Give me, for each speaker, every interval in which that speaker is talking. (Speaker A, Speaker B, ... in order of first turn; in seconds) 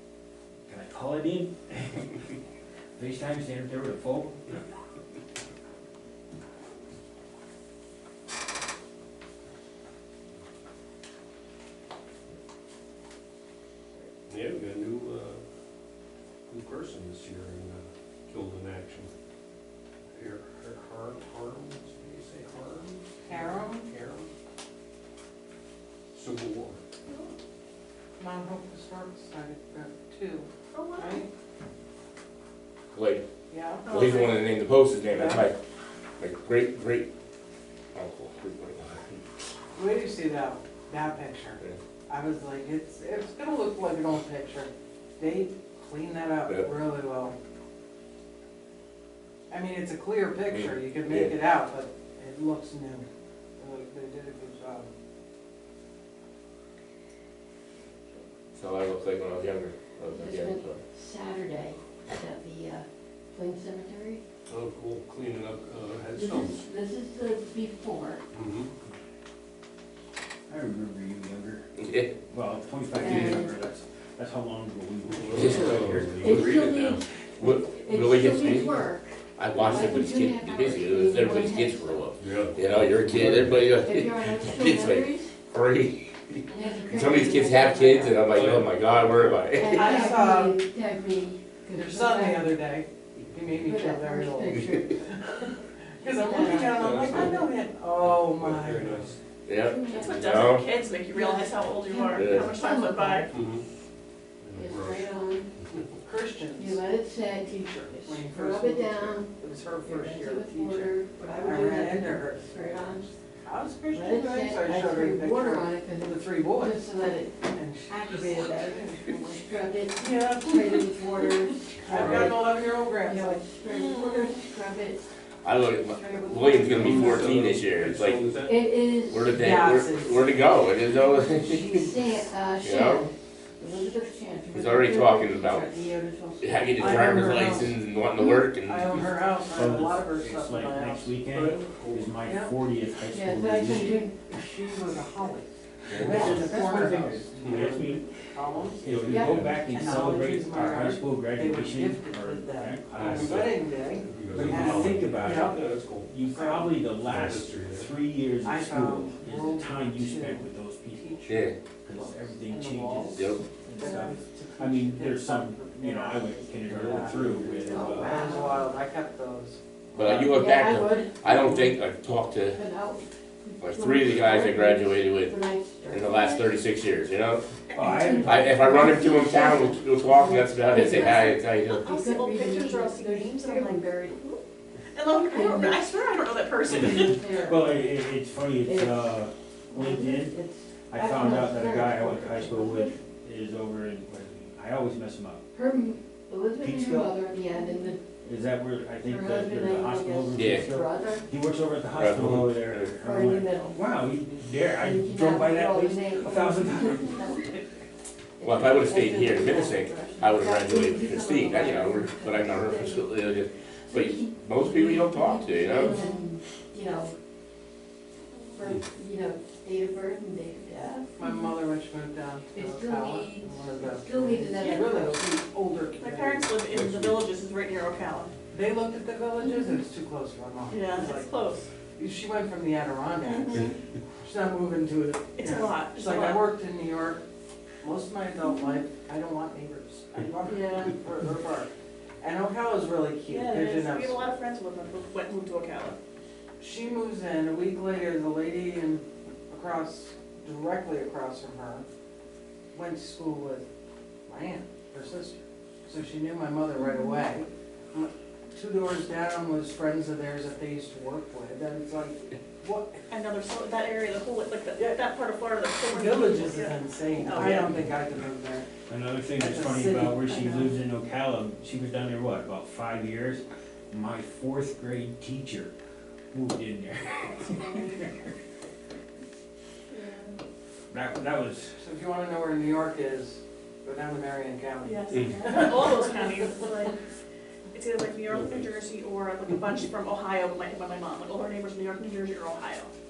Speaker A: 0.7-2.2, 3.0-4.6, 70.5-71.6, 72.2-76.7, 139.5-144.0, 145.9-148.1, 148.8-153.6, 154.3-168.4, 170.0-170.3, 177.7-178.6, 186.8-190.4, 190.9-195.4, 196.6-197.3, 198.2-207.3, 268.9-275.7, 276.3-278.3, 280.9-281.8
Speaker B: 14.3-15.4, 16.5-19.1, 20.1-24.3, 26.1-26.8, 64.5-66.7, 68.3-68.7, 75.0-77.0, 82.2-83.7, 88.3-89.5, 96.5-97.5, 98.1-99.2, 103.3-103.6, 104.4-105.1, 121.9-122.3, 126.6-128.7, 141.3-142.2, 147.4-147.8, 148.7-149.7, 152.9-156.2, 157.0-157.9, 166.7-167.9, 226.6-227.3, 288.3-288.7
Speaker C: 23.2-23.9, 28.2-31.3, 33.5-33.9, 35.1-35.5, 39.7-47.3, 49.5-53.1, 53.6-54.9, 89.7-90.6, 91.7-99.1, 106.0-106.8, 108.0-116.8, 117.5-123.4, 129.4-130.4, 136.8-141.2, 142.2-142.6, 144.2-145.5, 146.0-148.8, 149.7-155.6, 156.2-156.8, 158.4-161.3, 161.9-163.2, 163.7-169.6, 221.2-226.5, 228.5-231.4, 231.9-233.7, 234.2-237.2, 237.8-241.7, 242.2-244.3, 246.6-251.8, 252.7-253.7, 254.2-263.0, 265.9-268.6, 269.4-270.7, 281.8-286.0
Speaker D: 30.7-31.2, 33.8-34.4, 99.8-103.3, 123.6-124.4, 181.7-184.4, 184.9-187.2, 215.8-216.2, 226.0-228.3, 230.7-231.7, 233.2-233.7, 235.4-236.4, 240.4-240.9, 243.2-245.9, 263.1-267.8, 270.3-270.6, 279.9-280.4, 284.8-286.9, 287.7-292.9
Speaker E: 32.9-33.2, 33.8-35.5, 36.2-37.1, 37.9-39.2, 50.5-51.4, 58.5-60.8, 71.8-72.2, 75.3-76.5, 77.4-89.8, 99.4-100.7, 102.1-102.5, 121.9-122.2, 125.4-128.2, 129.0-132.0, 132.6-133.1, 134.5-135.8, 136.4-139.0, 145.9-146.2, 161.3-161.6, 163.1-163.4, 169.9-172.6, 173.6-175.4, 175.9-177.4, 178.2-181.8, 200.3-200.7, 201.9-202.9, 208.4-215.9
Speaker F: 60.1-64.2, 66.1-68.2, 72.9-73.5, 76.2-82.0, 83.8-85.4, 86.5-88.2, 89.5-92.6, 93.6-95.0, 96.0-96.8, 99.6-100.4, 101.1-103.3, 104.5-105.5, 106.5-109.3, 109.8-113.1, 113.9-125.0, 125.9-127.3, 128.4-129.4, 130.9-137.4, 143.1-144.2, 146.1-146.8, 149.1-149.4, 167.6-168.7, 170.0-171.7, 172.5-176.6, 177.8-184.4, 185.1-186.1, 186.7-187.9, 188.6-193.0, 195.5-198.0, 199.0-201.3, 203.0-203.8, 204.8-207.6, 208.4-213.1, 213.9-217.1, 218.5-221.5, 222.5-225.4